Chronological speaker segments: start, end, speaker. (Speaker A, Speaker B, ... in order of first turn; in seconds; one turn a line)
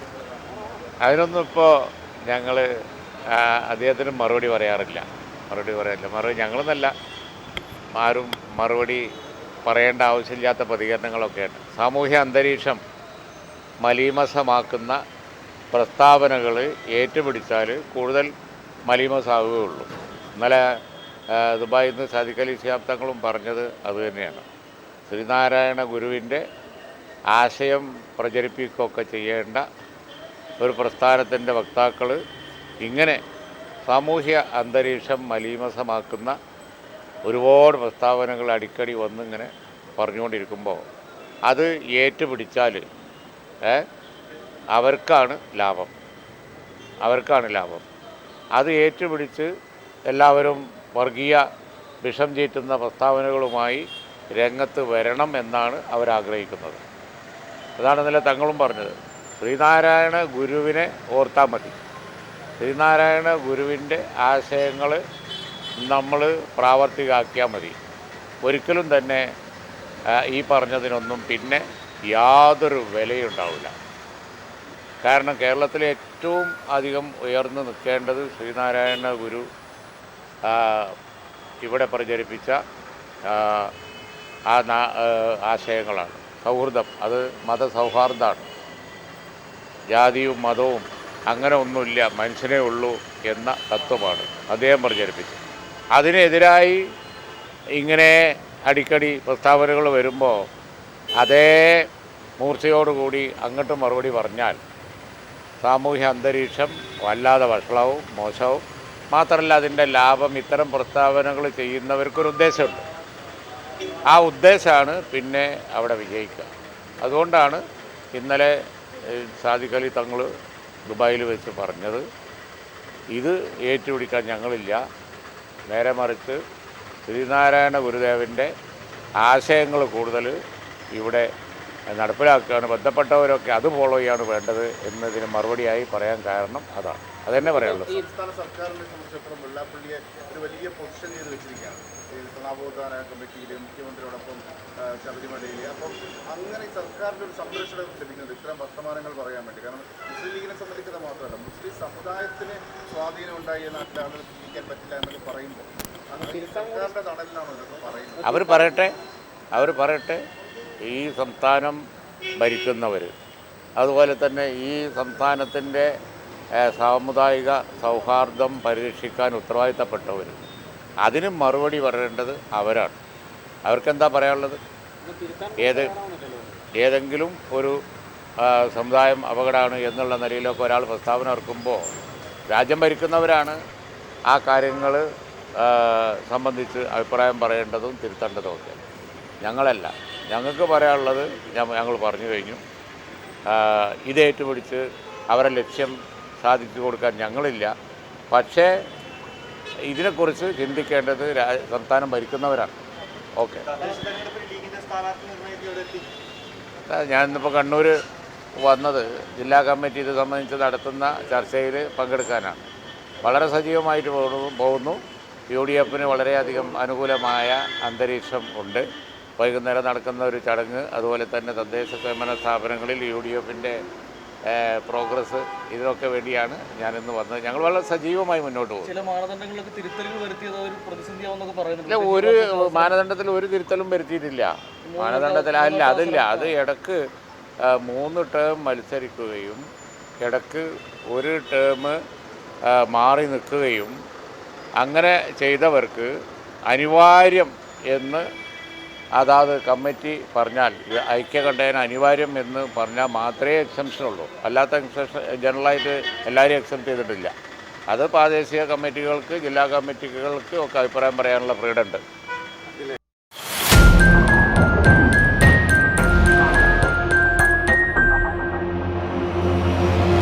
Speaker A: 1.0-2.7
Speaker A: 3.3-6.9
Speaker A: 8.0-9.0
Speaker A: 9.6-12.8
Speaker A: 13.8-15.0
Speaker A: 15.7-18.3
Speaker A: 18.9-20.7
Speaker A: 21.3-24.4
Speaker A: 25.1-26.4
Speaker A: 27.3-29.6
Speaker A: 30.6-32.2
Speaker A: 32.8-33.2
Speaker A: 33.9-36.4
Speaker A: 37.2-40.8
Speaker A: 41.5-42.8
Speaker A: 44.7-45.9
Speaker A: 47.0-47.9
Speaker A: 48.5-49.5
Speaker A: 50.1-51.4
Speaker A: 52.0-56.8
Speaker A: 57.8-61.8
Speaker A: 62.6-65.0
Speaker A: 65.8-67.8
Speaker A: 68.4-69.3
Speaker A: 70.1-73.7
Speaker A: 75.0-79.5
Speaker A: 80.5-80.9
Speaker A: 81.6-82.6
Speaker A: 83.3-83.7
Speaker A: 84.5-88.5
Speaker A: 89.9-95.4
Speaker A: 95.9-96.8
Speaker A: 97.8-100.4
Speaker A: 101.2-101.8
Speaker A: 102.4-104.6
Speaker A: 105.6-112.8
Speaker A: 114.1-116.5
Speaker A: 117.0-117.6
Speaker A: 118.1-118.5
Speaker A: 119.0-120.3
Speaker A: 120.9-122.0
Speaker A: 123.1-124.8
Speaker A: 125.7-126.4
Speaker A: 127.1-128.5
Speaker A: 129.2-130.3
Speaker A: 130.9-131.3
Speaker A: 131.9-138.0
Speaker B: 137.4-158.4
Speaker A: 158.2-158.9
Speaker A: 159.5-160.2
Speaker A: 160.8-161.8
Speaker A: 162.4-163.1
Speaker A: 163.8-165.9
Speaker A: 166.6-170.4
Speaker A: 171.0-173.0
Speaker A: 173.7-174.6
Speaker C: 175.0-176.6
Speaker A: 175.6-175.9
Speaker A: 176.8-177.8
Speaker A: 178.4-181.8
Speaker A: 182.5-183.6
Speaker A: 184.3-185.0
Speaker A: 185.6-188.8
Speaker A: 189.4-192.6
Speaker A: 193.5-197.7
Speaker A: 198.3-198.7
Speaker A: 199.8-202.7
Speaker A: 203.4-203.7
Speaker C: 203.8-204.1
Speaker A: 206.9-208.0
Speaker A: 208.6-212.6
Speaker A: 213.2-218.8
Speaker A: 219.4-223.8
Speaker A: 224.5-228.9
Speaker C: 228.8-232.9
Speaker A: 231.9-237.0
Speaker C: 234.8-236.5
Speaker A: 237.6-239.6
Speaker A: 240.2-242.0
Speaker A: 242.6-243.9
Speaker A: 244.8-246.1
Speaker A: 246.7-248.2
Speaker A: 249.2-257.3
Speaker A: 257.9-262.0